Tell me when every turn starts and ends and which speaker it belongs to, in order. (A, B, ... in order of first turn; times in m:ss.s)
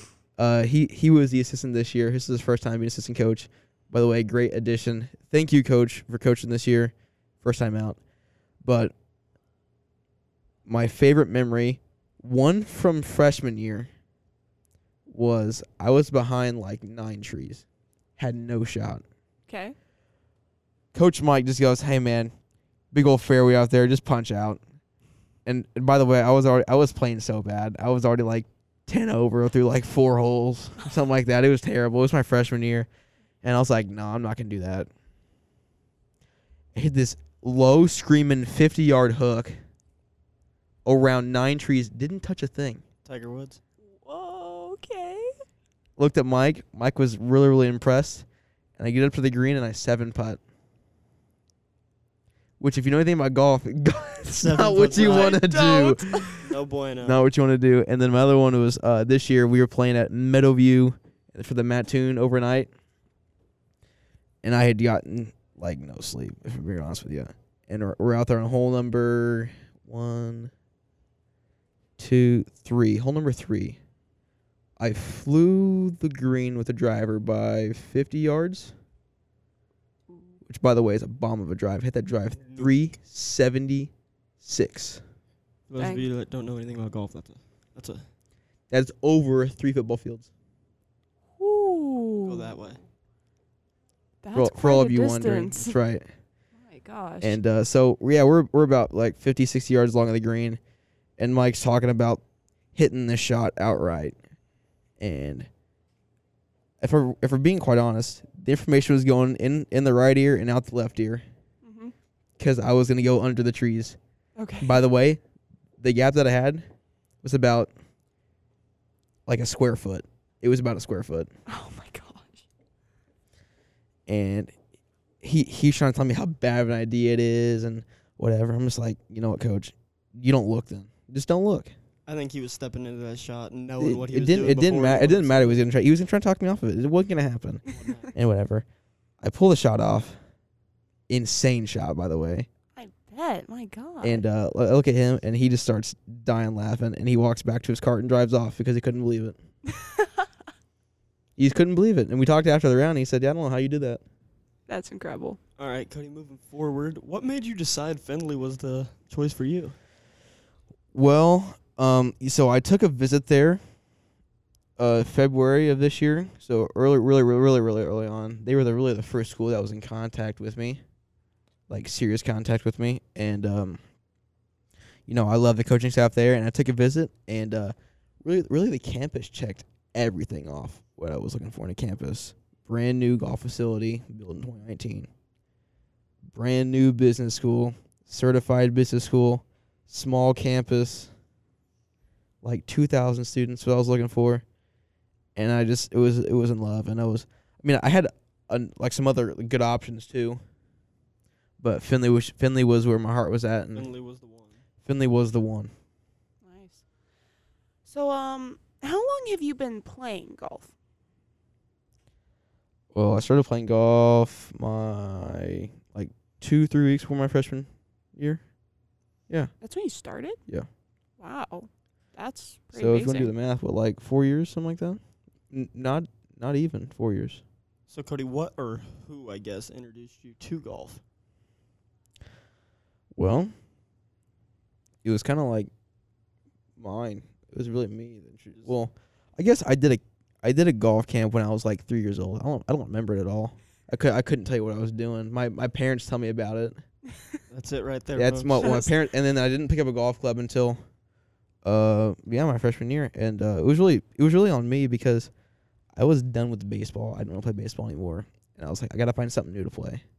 0:00.4-0:08.0 A
0:08.6-0:08.9 A
0:10.6-0:13.9 A
0:15.1-0:17.6 A
0:18.2-0:19.0 A
0:19.5-0:19.8 B
0:20.9-0:22.3 A
0:22.9-0:24.6 A
0:25.4-0:32.9 A
0:33.4-0:34.9 A
0:36.7-0:39.6 A
0:40.8-0:42.8 A
0:43.0-0:43.6 C
0:43.8-0:45.3 B
0:46.0-0:48.2 A
0:48.8-0:50.4 A
0:52.6-1:02.7 A
0:54.2-0:55.5 C
0:54.6-0:56.5 B
0:56.4-0:57.2 C
1:04.4-1:10.5 A
1:12.0-1:13.8 A
1:14.8-1:18.7 A
1:20.1-1:20.3 B
1:20.4-1:25.0 A
1:22.4-1:22.8 C
1:25.7-1:28.1 C
1:25.8-1:26.1 B
1:28.7-1:30.3 A
1:31.4-1:32.5 B
1:32.2-1:32.8 C
1:34.2-1:35.8 B
1:34.3-1:36.1 A
1:36.5-1:37.4 B
1:37.2-1:40.6 A
1:41.2-1:42.2 A
1:42.7-1:44.1 A
1:45.0-1:45.5 A
1:46.8-1:51.2 A
1:51.6-1:51.9 B
1:52.4-1:54.0 A
1:54.4-1:54.8 B
1:54.6-1:55.2 A
1:55.8-1:56.6 A
1:57.2-1:57.7 A
1:59.2-2:01.3 A
2:01.5-2:02.4 B
2:04.1-2:04.5 A
2:05.2-2:11.7 A
2:12.0-2:15.6 C
2:13.8-2:18.6 A
2:17.7-2:18.1 C
2:19.2-2:20.2 A
2:21.1-2:22.5 A
2:22.7-2:24.2 B
2:24.0-2:29.4 A
2:31.4-2:34.0 A
2:34.7-2:35.4 B
2:35.6-2:39.8 C
2:40.9-2:43.6 A
2:44.8-2:50.8 A
2:51.7-2:53.8 A
2:55.1-3:05.1 A
3:06.3-3:11.1 A
3:12.4-3:14.4 A
3:15.4-3:20.4 A
3:21.6-3:23.9 A
3:23.7-3:24.6 C
3:24.8-3:25.7 A
3:26.4-3:26.8 B
3:27.8-3:30.7 B
3:32.9-3:38.4 A
3:39.6-3:40.4 B
3:41.2-3:43.3 B
3:42.7-3:47.4 A
3:47.9-3:51.0 C
3:53.1-3:53.5 A
3:55.0-3:55.7 A
3:56.8-4:06.8 A
4:07.5-4:08.8 C
4:08.1-4:10.8 A
4:08.6-4:09.0 B
4:11.6-4:15.3 A
4:15.9-4:20.0 A